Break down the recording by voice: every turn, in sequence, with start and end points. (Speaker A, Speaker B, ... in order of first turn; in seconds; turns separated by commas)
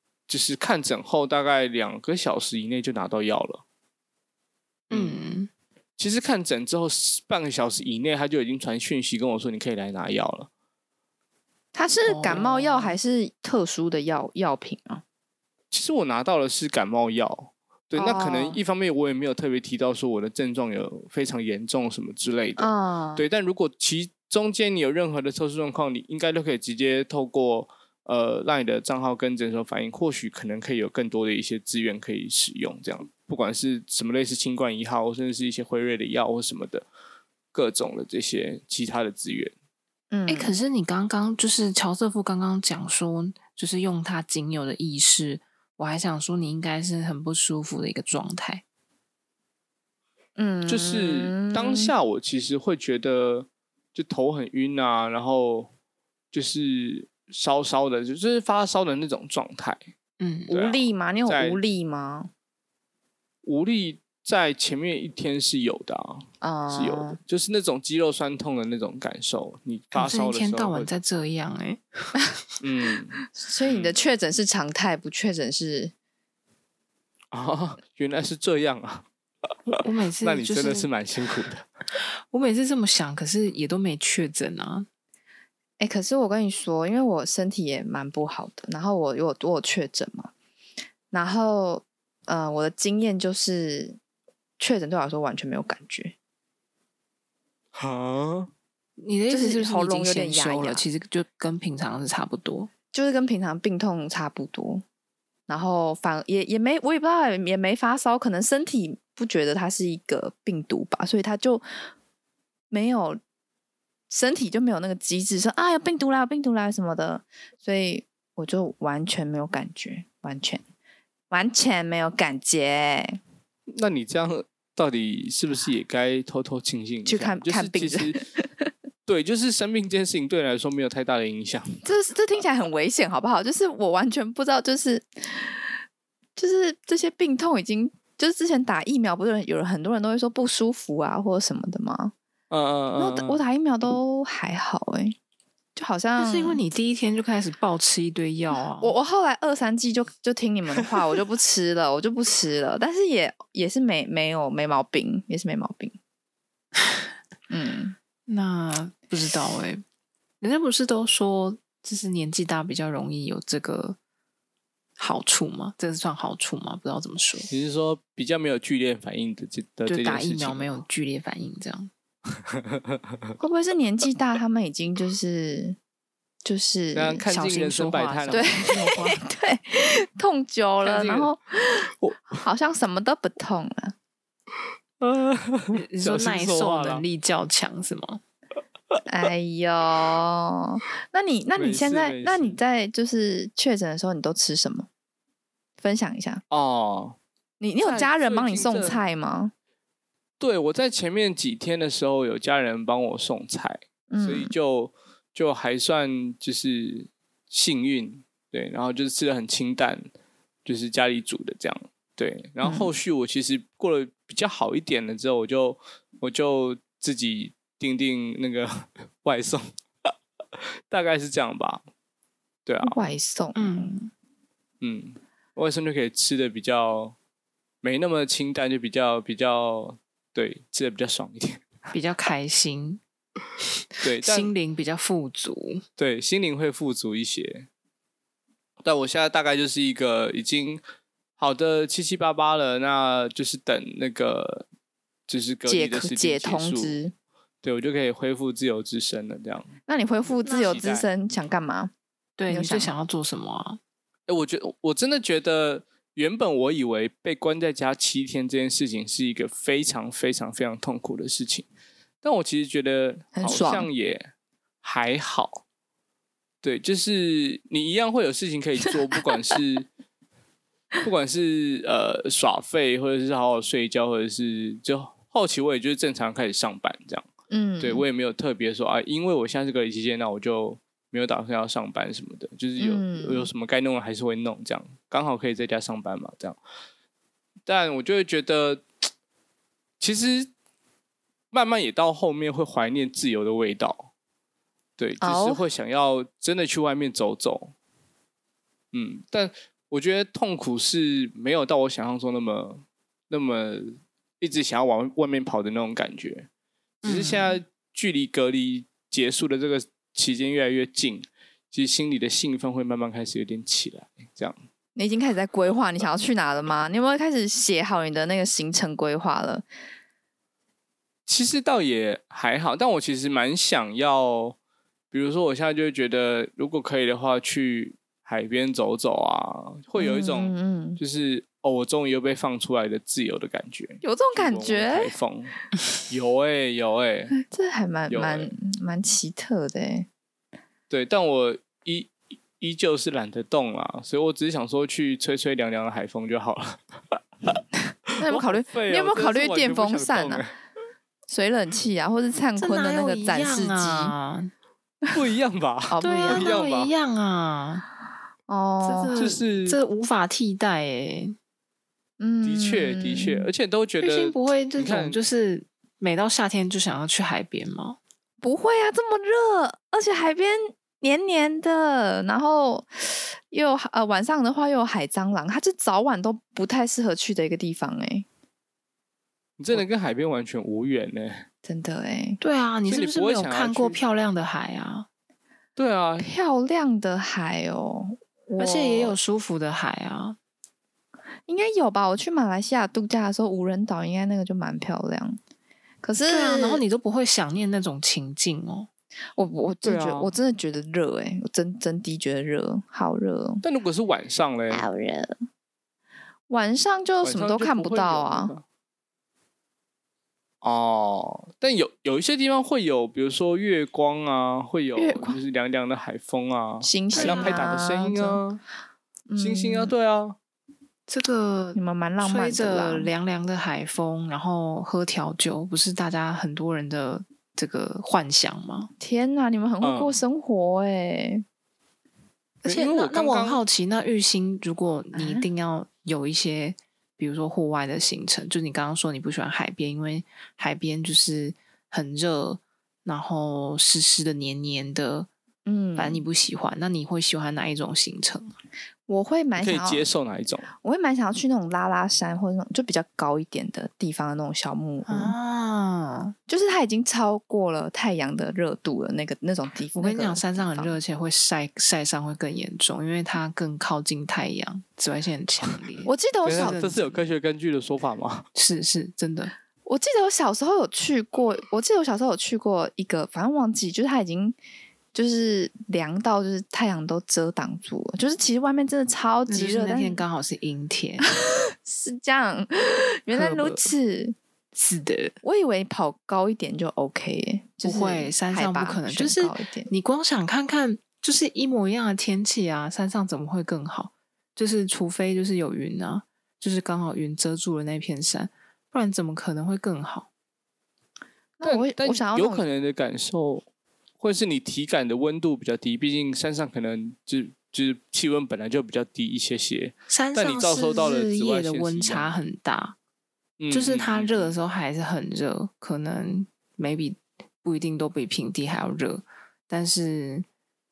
Speaker A: 0.3-3.6, Speaker B: 4.9-5.5, Speaker A: 4.9-5.2, Speaker A: 6.0-10.5, Speaker C: 11.7-15.0, Speaker B: 12.1-13.0, Speaker A: 15.7-36.9, Speaker C: 17.9-18.6, Speaker C: 22.6-23.2, Speaker A: 37.5-39.5, Speaker C: 40.1-40.6, Speaker B: 40.3-48.6, Speaker C: 50.4-51.9, Speaker A: 50.7-55.7, Speaker A: 56.3-59.8, Speaker B: 60.2-60.5, Speaker C: 60.5-62.3, Speaker A: 60.5-61.6, Speaker A: 63.4-70.9, Speaker C: 66.4-67.2, Speaker B: 69.9-72.1, Speaker A: 72.6-74.0, Speaker C: 73.4-75.9, Speaker A: 77.3-79.1, Speaker A: 79.7-81.7, Speaker B: 79.8-80.9, Speaker B: 82.2-84.9, Speaker C: 85.8-90.3, Speaker C: 91.1-94.0, Speaker C: 94.6-96.2, Speaker A: 97.8-98.5, Speaker B: 99.0-102.7, Speaker C: 99.3-100.8, Speaker C: 102.9-104.8, Speaker C: 105.5-111.6, Speaker C: 112.7-113.2, Speaker C: 114.1-120.6, Speaker C: 121.3-123.2, Speaker A: 123.7-128.2, Speaker C: 127.0-128.7, Speaker A: 129.1-131.8, Speaker C: 131.8-135.6, Speaker C: 136.4-142.1, Speaker A: 142.5-143.4, Speaker C: 142.9-145.2, Speaker C: 145.8-146.6, Speaker B: 146.2-148.9, Speaker C: 148.8-155.9, Speaker C: 157.5-158.0, Speaker B: 158.3-159.8, Speaker B: 160.4-164.0, Speaker B: 165.0-167.5, Speaker A: 167.5-170.8, Speaker B: 169.9-171.9, Speaker A: 172.5-173.0, Speaker C: 173.4-175.8, Speaker C: 176.4-177.2, Speaker A: 176.9-178.7, Speaker B: 177.3-179.2, Speaker C: 178.3-183.9, Speaker A: 180.8-181.3, Speaker A: 182.0-182.4, Speaker A: 185.0-187.1, Speaker B: 185.8-188.2, Speaker C: 189.1-194.9, Speaker A: 191.6-192.6, Speaker C: 195.8-196.4, Speaker A: 196.5-197.2, Speaker C: 197.6-199.5, Speaker A: 197.8-199.0, Speaker A: 200.4-210.1, Speaker C: 204.1-204.5, Speaker A: 210.7-220.1, Speaker C: 212.6-212.9, Speaker A: 220.9-221.8, Speaker A: 222.7-223.0, Speaker C: 222.8-224.0, Speaker B: 223.6-224.1, Speaker A: 224.8-227.2, Speaker A: 227.8-231.7, Speaker B: 231.9-233.0, Speaker A: 234.0-234.5, Speaker B: 234.1-235.8, Speaker A: 236.0-237.7, Speaker A: 238.8-240.8, Speaker A: 241.4-244.7, Speaker A: 245.3-246.9, Speaker C: 245.7-247.1, Speaker A: 247.6-249.7, Speaker C: 249.9-251.9, Speaker B: 250.4-250.9, Speaker A: 250.6-251.1, Speaker B: 252.4-253.8, Speaker C: 252.5-252.9, Speaker A: 254.3-261.7, Speaker A: 262.2-264.3, Speaker C: 263.4-263.9, Speaker A: 264.8-265.6, Speaker A: 266.6-269.9, Speaker A: 271.0-277.3, Speaker C: 277.5-278.1, Speaker A: 277.8-286.6, Speaker C: 282.8-283.5, Speaker A: 287.7-288.9, Speaker A: 290.0-290.5, Speaker A: 291.5-294.1, Speaker A: 295.0-297.7, Speaker C: 295.2-295.6, Speaker A: 298.9-306.5, Speaker B: 307.0-307.6, Speaker A: 307.1-314.6, Speaker C: 315.0-319.6, Speaker A: 321.3-324.6, Speaker A: 325.1-337.3, Speaker C: 330.0-331.0, Speaker C: 334.0-335.1, Speaker C: 337.4-340.1, Speaker A: 338.1-338.5, Speaker A: 340.9-347.6, Speaker A: 348.2-350.5, Speaker C: 348.2-350.4, Speaker C: 351.3-354.1, Speaker B: 352.6-354.5, Speaker A: 355.1-356.9, Speaker C: 355.9-356.5, Speaker B: 356.0-357.8, Speaker C: 358.5-359.2, Speaker B: 358.8-361.4, Speaker A: 359.2-359.8, Speaker C: 362.2-363.5, Speaker A: 362.4-365.2, Speaker B: 364.0-368.0, Speaker C: 368.4-378.3, Speaker A: 379.6-381.5, Speaker C: 381.6-382.4, Speaker B: 382.4-385.1, Speaker A: 382.9-384.0, Speaker A: 385.8-386.3, Speaker C: 386.2-389.2, Speaker B: 388.6-390.4, Speaker C: 391.5-395.4, Speaker C: 396.0-396.8, Speaker B: 396.3-398.9, Speaker C: 399.4-403.6, Speaker A: 399.8-400.3, Speaker A: 403.6-404.9, Speaker C: 404.7-405.4, Speaker C: 406.5-408.5, Speaker A: 407.2-408.6, Speaker A: 410.6-418.6, Speaker C: 415.0-415.4, Speaker C: 416.8-418.4, Speaker B: 417.1-417.7, Speaker C: 419.3-419.9, Speaker A: 419.4-420.4, Speaker B: 421.1-428.9, Speaker C: 421.8-423.1, Speaker C: 429.0-431.4, Speaker A: 429.8-430.2, Speaker B: 432.6-445.3, Speaker A: 432.6-433.6, Speaker C: 435.1-435.5, Speaker C: 445.7-446.3, Speaker B: 446.0-448.5, Speaker C: 449.1-450.1, Speaker A: 449.6-450.7, Speaker C: 450.8-455.4, Speaker B: 455.1-456.3, Speaker C: 456.5-461.0, Speaker B: 459.9-467.2, Speaker C: 466.1-466.9, Speaker A: 466.4-468.5, Speaker B: 468.6-469.5, Speaker C: 469.9-474.6, Speaker C: 475.1-480.2, Speaker B: 479.5-481.3, Speaker C: 481.3-484.4, Speaker A: 483.3-483.9, Speaker B: 484.8-485.4, Speaker C: 485.4-489.9, Speaker B: 487.8-500.3, Speaker C: 501.6-502.6, Speaker A: 501.6-503.6, Speaker A: 504.2-512.4, Speaker B: 510.1-513.0, Speaker A: 513.6-514.5, Speaker B: 513.7-520.5